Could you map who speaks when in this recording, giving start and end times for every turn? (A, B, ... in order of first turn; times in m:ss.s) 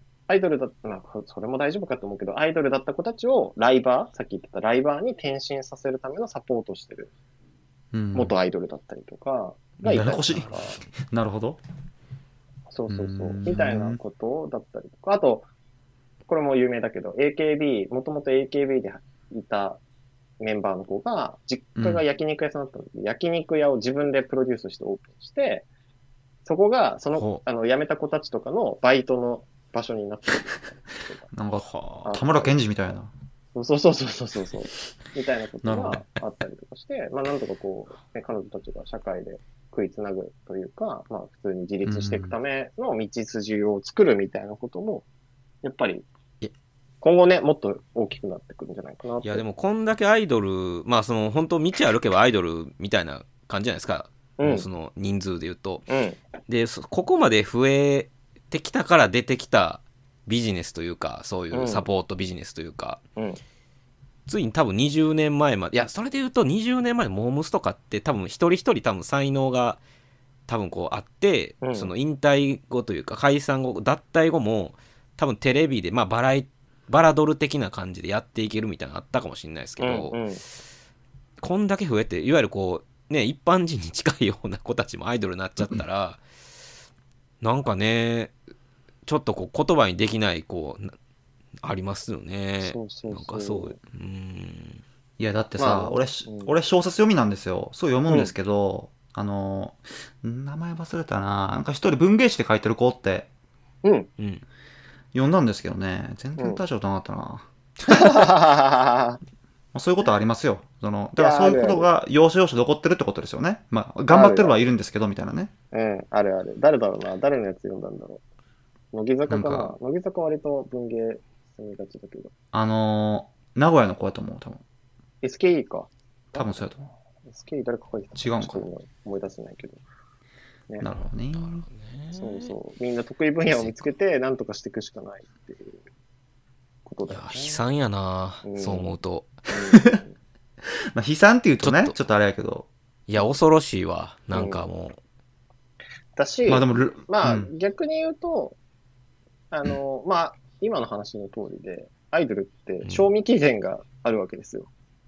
0:00.3-0:07.1 A
0:07.9-0:08.3 B
0:08.1-0:10.8 A
0:09.8-0:11.6 B
0:10.3-0:10.9 C
0:12.7-0:15.5 A
0:12.9-0:14.0 B
0:16.3-0:19.8 A
0:20.4-0:25.6 A
0:21.8-0:22.0 B
0:26.4-0:31.3 A
0:27.2-0:27.4 C
0:31.3-0:33.1 B
0:31.6-0:32.1 C
0:32.0-0:32.6 A
0:33.5-0:45.0 A
0:35.6-0:36.0 B
0:41.8-0:42.4 B
0:45.6-0:46.0 A
0:47.0-0:49.4 A
0:49.2-0:55.9 C
0:54.4-0:54.6 A
0:55.9-0:56.2 A
0:56.5-1:03.0 C
1:01.5-1:01.8 A
1:04.3-1:09.8 C
1:10.5-1:20.2 C
1:11.6-1:11.9 A
1:19.8-1:20.4 A
1:21.4-1:26.2 C
1:27.4-1:28.3 C
1:29.0-1:30.9 C
1:31.6-1:34.8 C
1:32.6-1:33.8 A
1:35.2-1:43.3 B
1:35.6-1:36.5 A
1:38.1-1:38.3 A
1:44.2-1:44.4 C
1:45.1-1:47.4 B
1:47.9-1:49.2 A
1:49.7-1:55.5 B
1:51.2-1:51.9 A
1:54.1-1:54.6 A
1:55.7-1:58.2 A
1:58.9-2:02.3 A
1:59.3-1:59.8 B
2:02.5-2:04.6 B
2:05.2-2:09.8 A
2:06.3-2:06.9 B
2:08.2-2:08.6 B
2:10.7-2:11.1 A
2:10.8-2:11.6 B
2:11.3-2:12.5 C
2:12.1-2:15.8 A
2:13.5-2:13.9 C
2:16.8-2:17.6 A
2:17.1-2:19.4 C
2:18.4-2:19.0 A
2:19.5-2:20.1 A
2:20.9-2:22.7 B
2:21.6-2:22.0 C
2:23.1-2:25.0 C
2:24.3-2:24.6 A
2:26.2-2:28.6 A
2:26.5-2:27.5 B
2:29.5-2:34.7 A